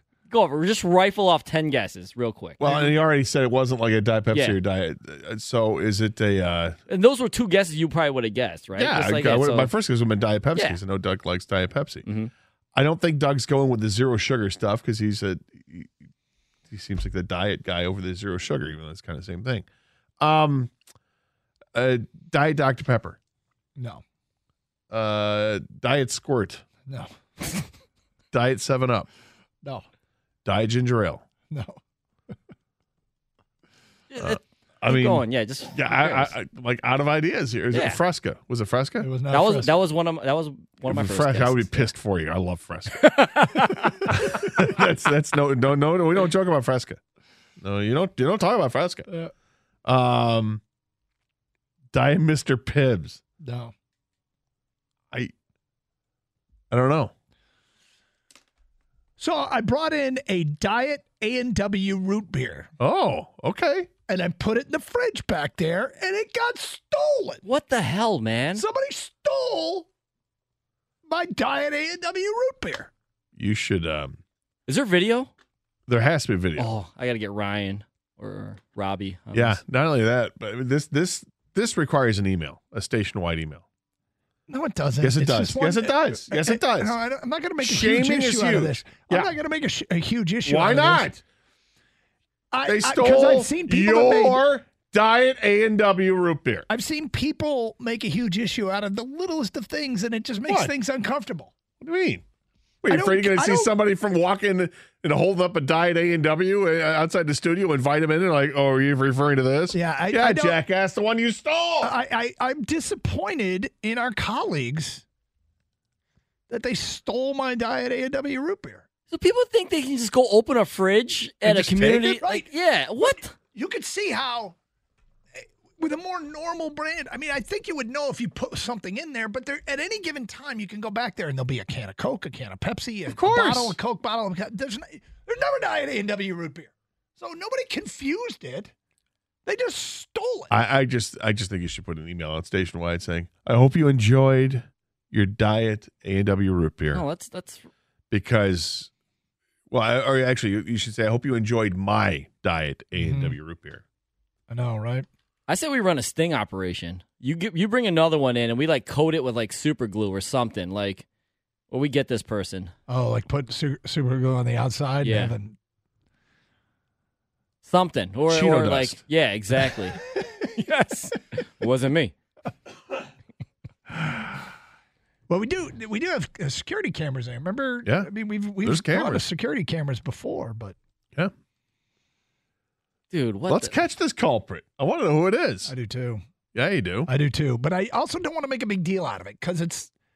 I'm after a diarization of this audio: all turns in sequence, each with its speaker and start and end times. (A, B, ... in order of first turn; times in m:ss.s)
0:00.3-0:02.6 A
0:02.6-0:06.8 B
0:02.6-0:02.9 C
0:04.3-0:04.6 A
0:06.9-0:09.7 A
0:08.8-0:12.0 B
0:12.0-0:12.3 A
0:12.7-0:15.9 B
0:16.7-0:19.7 B
0:20.2-0:20.7 B
0:21.7-0:23.2 B
0:23.8-0:24.0 C
0:24.9-0:26.6 B
0:26.9-0:27.6 C
0:28.3-0:29.1 B
0:30.4-0:31.2 B
0:31.5-0:31.8 C
0:34.1-0:36.3 A
0:34.2-0:39.1 B
0:37.7-0:38.0 A
0:39.0-0:39.7 C
0:39.3-0:41.9 A
0:40.8-0:43.1 B
0:43.0-0:44.2 A
0:44.1-0:47.0 B
0:47.6-0:49.1 B
0:49.8-0:50.6 B
0:51.9-0:53.2 B
0:53.4-0:53.7 C
0:56.7-0:57.1 B
0:59.2-1:02.7 C
1:02.8-1:03.9 B
1:04.1-1:07.4 C
1:07.4-1:08.6 A
1:08.5-1:09.9 C
1:11.0-1:12.9 C
1:13.4-1:14.2 B
1:14.7-1:15.3 A
1:15.9-1:16.7 B
1:16.6-1:19.6 A
1:19.3-1:23.6 B
1:24.5-1:31.1 C
1:25.0-1:26.9 B
1:27.6-1:29.3 B
1:30.4-1:31.2 B
1:32.5-1:34.4 C
1:32.6-1:36.7 B
1:36.7-1:41.5 C
1:40.4-1:40.7 B
1:41.8-1:42.2 B
1:42.8-1:51.9 B
1:42.9-1:43.7 C
1:49.7-1:50.6 C
1:51.8-1:55.0 C
1:56.5-1:58.8 C
1:59.1-2:03.3 A
2:01.4-2:02.5 C
2:03.0-2:04.6 C
2:05.4-2:18.7 C
2:13.1-2:13.8 B
2:19.4-2:20.5 C
2:20.5-2:27.0 B
2:26.9-2:27.7 A
2:28.1-2:28.9 B
2:29.7-2:33.8 B
2:33.0-2:33.4 C
2:34.5-2:35.1 C
2:35.5-2:41.0 A
2:41.7-2:42.7 A
2:42.9-2:45.6 C
2:45.0-2:45.3 A
2:47.6-2:50.0 A
2:48.3-2:49.0 B
2:50.5-2:52.1 A
2:53.9-2:54.3 C
2:55.3-3:00.8 C
2:57.8-2:58.1 B
2:58.6-2:59.2 B
3:03.1-3:03.8 A
3:03.5-3:05.7 B
3:05.6-3:06.2 C
3:06.5-3:07.1 B
3:07.0-3:09.9 C